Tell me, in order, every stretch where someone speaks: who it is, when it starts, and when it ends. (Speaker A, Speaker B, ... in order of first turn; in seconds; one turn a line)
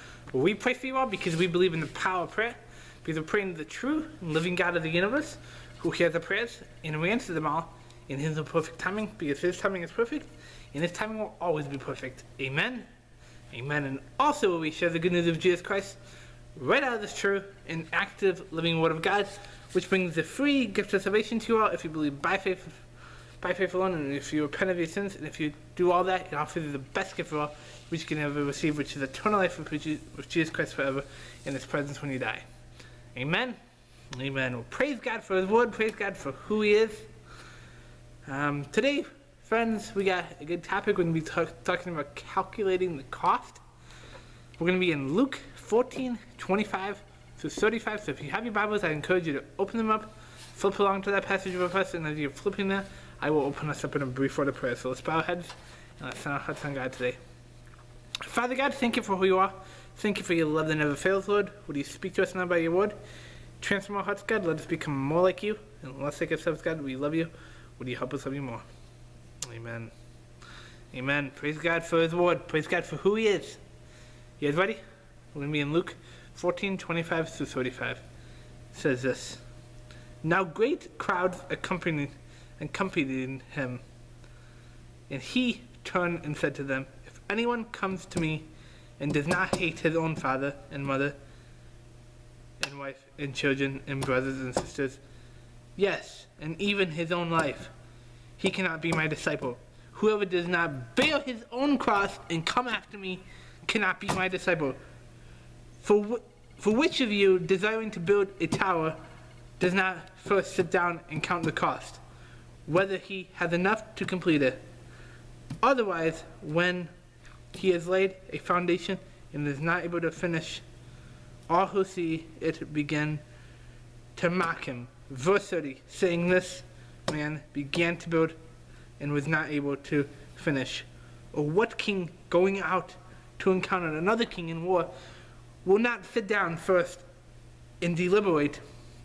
Speaker A: 0.3-12.9
Speaker A: 13.5-16.0
Speaker A: 16.6-22.8
Speaker A: 23.4-32.5
Speaker A: 33.1-33.6
Speaker A: 34.1-37.1
Speaker A: 38.2-43.6
Speaker A: 44.6-57.2
Speaker A: 58.2-63.0
Speaker A: 63.6-68.7
Speaker A: 69.4-69.9
Speaker A: 70.9-73.6
Speaker A: 74.4-74.8
Speaker A: 75.3-78.0
Speaker A: 78.7-79.4
Speaker A: 80.2-83.8
Speaker A: 85.1-88.5
Speaker A: 89.0-91.2
Speaker A: 92.6-95.0
Speaker A: 95.8-97.7
Speaker A: 98.4-104.8
Speaker A: 105.8-109.0
Speaker A: 109.6-112.0
Speaker A: 112.7-114.6
Speaker A: 115.6-116.9
Speaker A: 117.5-120.6
Speaker A: 121.5-123.2
Speaker A: 124.2-128.3
Speaker A: 129.0-134.9
Speaker A: 135.6-137.0
Speaker A: 137.8-138.6